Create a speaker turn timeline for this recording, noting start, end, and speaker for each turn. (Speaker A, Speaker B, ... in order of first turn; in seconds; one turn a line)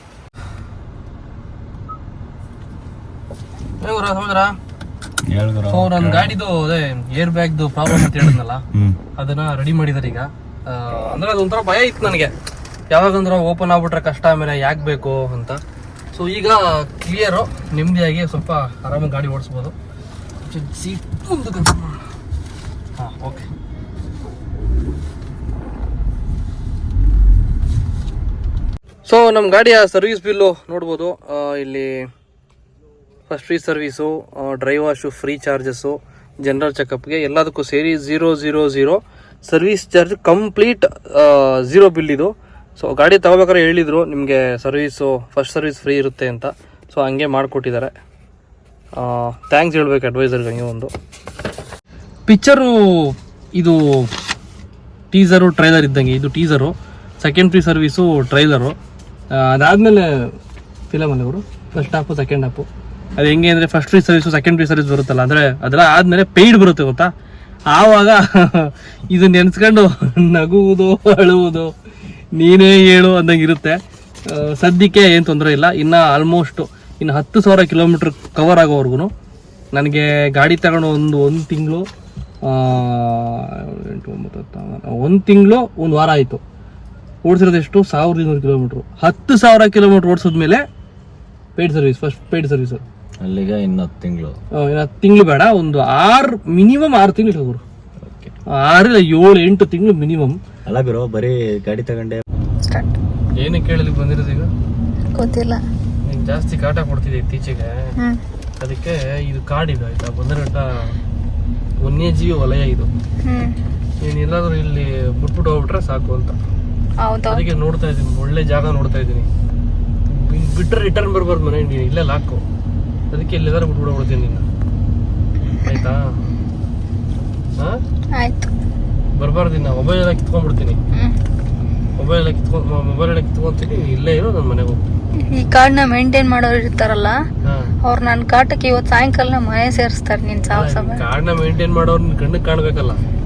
Speaker A: 3.8-4.5
Speaker B: 5.2-6.3
Speaker A: 5.7-8.6
Speaker B: 8.7-9.0
Speaker A: 9.2-12.3
Speaker A: 12.9-15.6
Speaker A: 16.1-19.8
Speaker A: 20.4-22.0
Speaker A: 23.0-23.5
Speaker A: 29.1-32.0
Speaker A: 33.3-47.9
Speaker A: 49.0-50.9
Speaker A: 52.3-54.1
Speaker A: 55.1-58.8
Speaker A: 59.3-60.1
Speaker A: 60.9-67.1
Speaker A: 67.7-71.7
Speaker A: 72.3-79.1
Speaker A: 79.7-81.9
Speaker A: 82.5-86.4
Speaker A: 87.2-90.6
Speaker A: 91.5-92.8
Speaker B: 93.2-94.3
Speaker A: 94.6-97.6
Speaker B: 98.1-98.3
Speaker A: 98.6-100.4
Speaker B: 100.7-102.2
Speaker C: 102.7-102.9
Speaker A: 103.4-104.5
Speaker C: 105.2-105.6
Speaker A: 106.0-107.9
Speaker A: 108.6-110.9
Speaker A: 111.8-112.9
Speaker C: 113.2-113.5
Speaker A: 114.0-116.4
Speaker C: 117.0-117.4
Speaker A: 117.3-119.3
Speaker A: 120.1-122.4
Speaker A: 123.1-124.5
Speaker A: 125.6-126.1
Speaker C: 128.1-128.5
Speaker A: 129.1-130.8
Speaker A: 132.0-134.8
Speaker C: 135.3-137.1
Speaker A: 137.4-137.7
Speaker C: 137.8-141.0
Speaker A: 140.5-143.0